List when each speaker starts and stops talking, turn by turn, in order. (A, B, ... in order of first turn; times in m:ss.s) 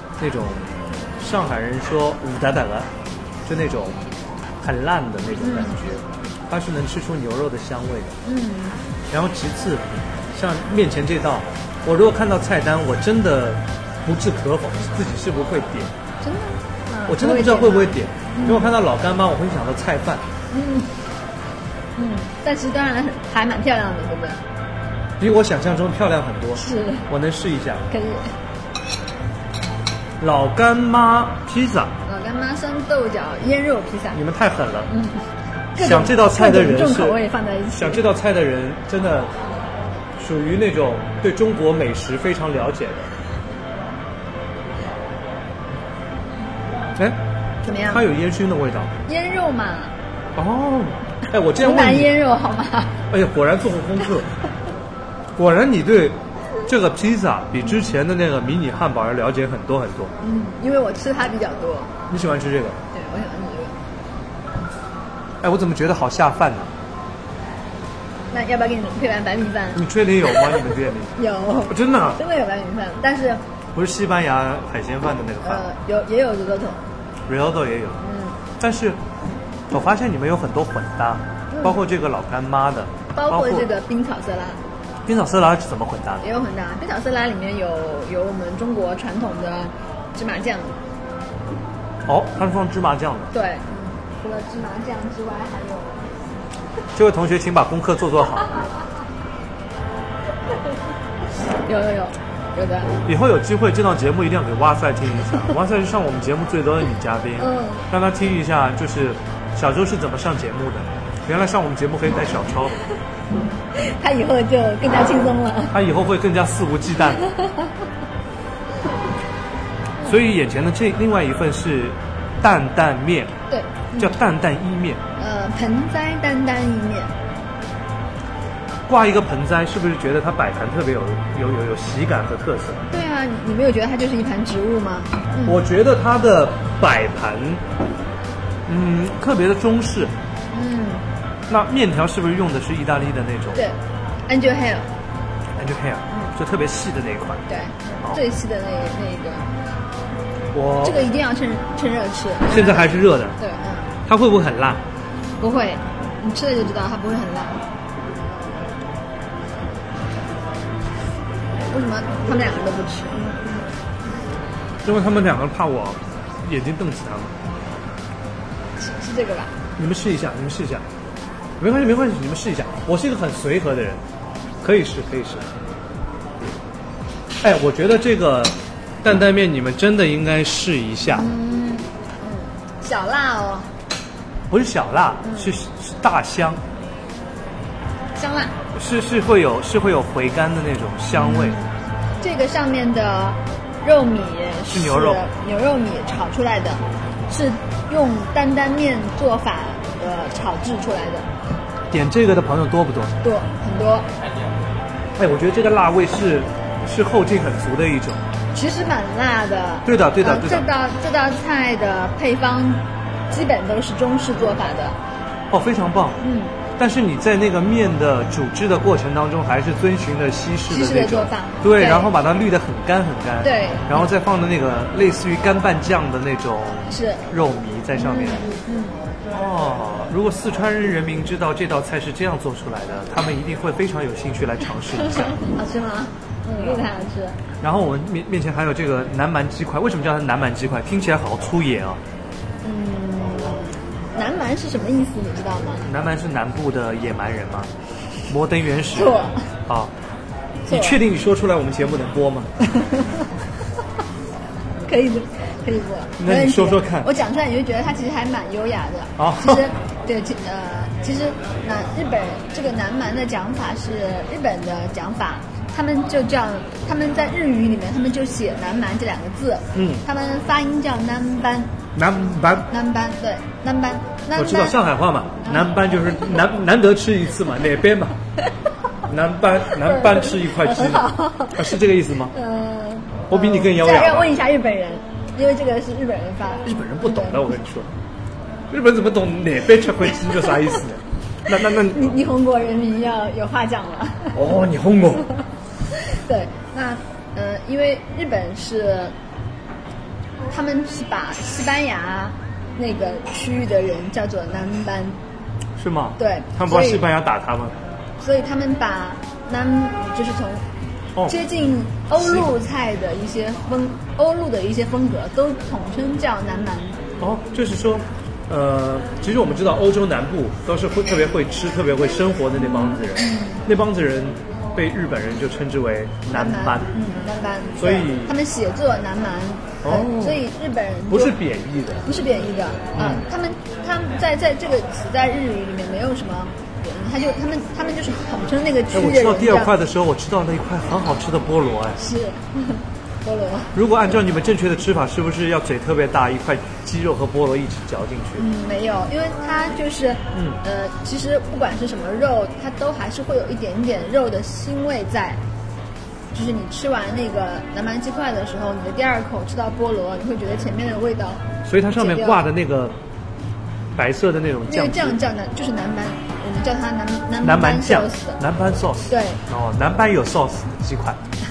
0:00.2-0:02.9 A
0:03.5-0:04.0 A
0:04.6-0:08.2 A
0:05.4-0:05.8 B
0:08.2-0:08.8 B
0:09.1-0:15.9 A
0:16.2-0:18.7 B
0:17.1-0:20.2 A
0:20.5-0:20.9 B
0:22.0-0:24.4 B
0:25.2-0:27.8 A
0:26.6-0:27.1 B
0:27.9-0:28.4 B
0:30.2-0:31.9 A
0:32.0-0:34.2 B
0:34.1-0:34.9 A
0:34.9-0:38.0 B
0:35.8-0:37.2 A
0:37.7-0:39.3 A
0:40.2-0:43.1 A
0:47.0-0:48.9 A
0:47.6-0:48.1 B
0:49.1-0:49.9 B
0:50.4-0:52.2 A
0:51.6-0:53.0 B
0:53.1-0:54.3 A
0:55.4-1:00.1 A
1:00.2-1:01.9 B
1:02.1-1:02.8 A
1:02.9-1:03.8 B
1:05.4-1:06.7 A
1:08.3-1:13.4 B
1:09.8-1:11.2 A
1:11.7-1:12.2 A
1:13.8-1:15.7 A
1:15.4-1:16.8 B
1:17.3-1:18.0 A
1:18.0-1:18.4 B
1:18.6-1:19.0 A
1:19.7-1:23.7 A
1:21.5-1:21.8 B
1:23.1-1:24.6 B
1:25.1-1:26.3 A
1:26.2-1:30.7 B
1:32.1-1:33.3 A
1:33.3-1:36.1 B
1:36.9-1:38.6 A
1:41.4-1:42.9 B
1:43.0-1:52.8 A
1:47.4-1:47.9 B
1:53.7-1:55.8 B
1:55.7-1:57.2 A
1:57.2-1:57.7 B
2:00.0-2:03.3 A
2:03.5-2:04.2 B
2:04.0-2:05.0 A
2:05.2-2:07.1 B
2:08.9-2:12.8 A
2:12.9-2:15.6 B
2:15.4-2:17.6 A
2:18.7-2:20.2 A
2:20.5-2:21.1 B
2:21.5-2:23.7 A
2:23.6-2:24.9 B
2:25.6-2:27.4 A
2:27.5-2:29.6 B
2:30.5-2:31.0 A
2:30.8-2:34.0 B
2:32.4-2:33.4 A
2:34.1-2:34.8 A
2:35.4-2:37.6 B
2:41.7-2:43.3 B
2:44.8-2:47.4 A
2:48.8-2:49.5 B
2:49.8-2:50.8 A
2:51.6-2:54.0 A
2:54.6-2:55.4 A
2:57.4-3:01.3 A
3:01.1-3:03.7 B
3:04.5-3:06.6 A
3:05.2-3:05.5 B
3:08.2-3:08.6 B
3:08.7-3:11.6 A
3:11.1-3:21.3 B
3:14.7-3:15.2 A
3:21.9-3:23.1 A
3:23.2-3:24.1 B
3:25.2-3:28.2 A
3:28.5-3:35.0 B
3:29.8-3:30.7 A
3:35.5-3:36.2 A
3:36.2-3:36.6 B
3:36.8-3:48.5 A
3:40.7-3:42.1 B
3:43.4-3:44.1 B
3:46.9-3:47.2 B
3:48.0-3:49.0 B
3:49.3-3:55.4 A
3:55.0-3:57.4 B
3:57.6-4:02.0 A
4:02.6-4:05.9 B
4:05.8-4:07.7 A
4:08.3-4:09.9 A
4:08.9-4:09.5 B
4:10.7-4:11.0 B
4:10.7-4:12.5 A
4:12.6-4:13.3 B
4:14.8-4:31.8 B
4:16.2-4:17.1 A
4:19.2-4:19.7 A
4:29.7-4:30.0 A
4:32.0-4:32.7 A
4:32.7-4:34.8 B
4:34.4-4:38.2 A
4:35.4-4:36.0 B
4:39.1-4:42.3 A
4:39.7-4:41.7 B
4:42.3-4:47.6 B
4:43.3-4:44.3 A
4:46.6-4:47.9 A
4:48.7-4:52.1 A
4:51.7-4:54.4 B
4:54.3-4:55.3 A
4:55.9-4:59.2 B
5:00.5-5:05.2 B
5:05.8-5:07.8 A
5:06.2-5:07.1 B
5:08.2-5:10.6 B
5:11.2-5:17.0 B
5:12.2-5:12.5 A
5:17.2-5:26.9 A
5:22.6-5:23.6 B
5:26.3-5:31.4 B
5:27.8-5:28.4 A
5:29.8-5:30.4 A
5:31.1-5:32.1 A
5:32.0-5:39.7 B
5:32.9-5:33.3 A
5:38.9-5:42.0 A
5:42.0-5:43.8 B
5:43.7-5:48.5 A
5:48.4-5:55.4 B
5:50.3-5:50.6 A
5:56.3-6:02.4 B
6:01.6-6:03.0 A
6:04.0-6:05.2 A
6:04.7-6:08.4 B
6:07.4-6:11.2 A
6:09.1-6:09.4 B